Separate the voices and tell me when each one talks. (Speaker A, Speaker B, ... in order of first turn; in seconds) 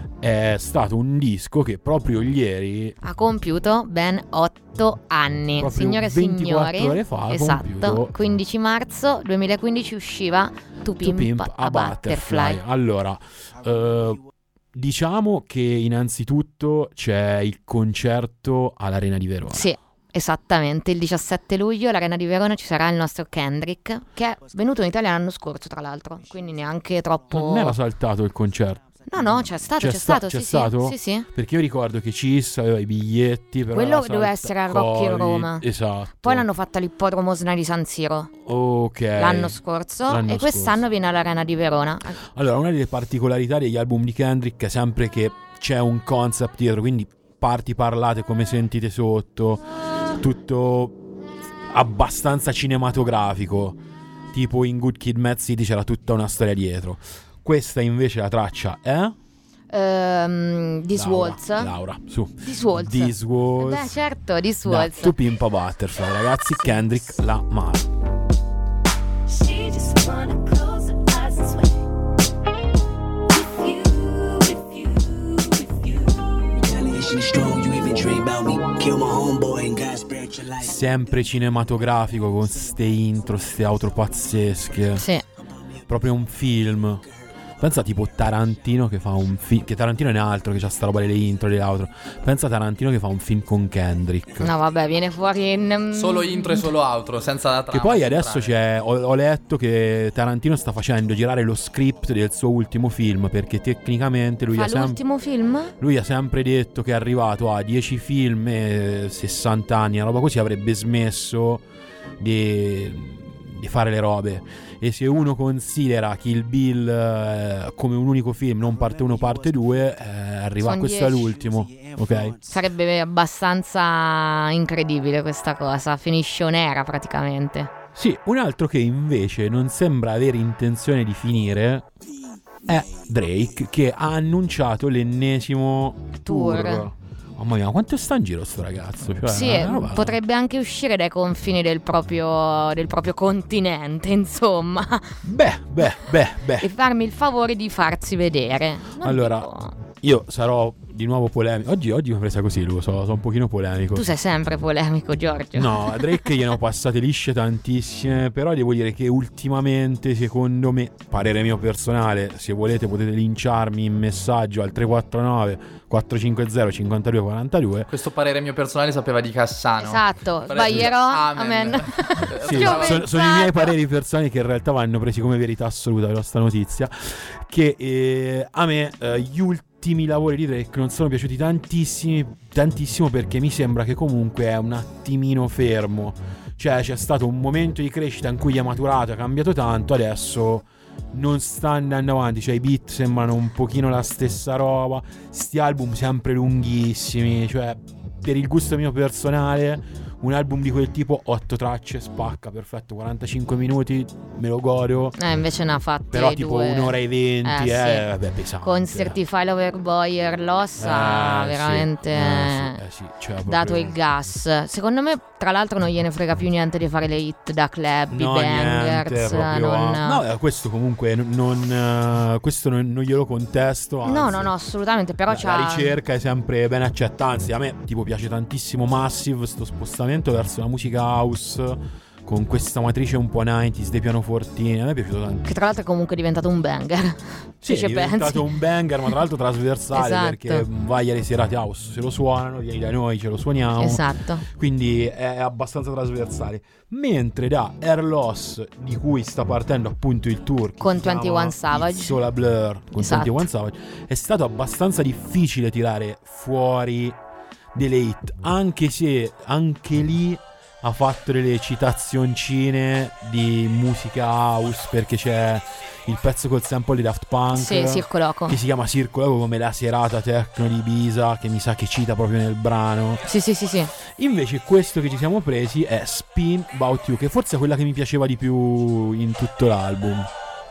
Speaker A: 0.2-3.0, 5.6-8.1, 11.0-14.2, 14.7-19.7, 27.3-36.5, 38.4-40.8, 42.2-51.0, 51.7-53.8, 54.3-59.1, 60.9-64.0, 64.6-67.9, 80.6-85.1, 85.9-87.0, 87.6-94.5, 97.7-105.0, 105.8-111.6, 112.2-122.4, 127.9-131.9, 132.7-140.2, 145.2-146.7, 149.0-154.1, 155.5-167.9, 172.4-205.2, 206.1-209.2, 210.8-214.0, 218.1-224.5, 225.3-235.4, 237.6-257.2, 257.7-273.3, 274.1-280.3
Speaker B: 3.0-12.6, 19.5-27.8, 29.1-31.3, 33.7-35.6, 36.2-38.3, 39.1-42.2, 59.7-61.8, 62.4-65.2, 84.9-85.2, 94.4-96.7, 104.5-105.7, 120.6-121.3, 122.4-127.7, 136.2-136.9, 139.3-145.2, 146.6-149.7, 153.9-156.4, 169.8-173.7, 205.2-208.1, 208.6-212.8, 213.4-220.2, 224.0-225.9, 235.4-238.5, 239.9-240.7, 243.8-244.4, 250.8-252.2, 253.0-253.4, 267.5-268.6, 273.3-273.9
Speaker C: 69.3-71.8, 73.3-76.6
Speaker D: 76.6-80.7, 118.7-119.6, 121.4-122.4
Speaker E: 95.9-98.5, 167.9-173.1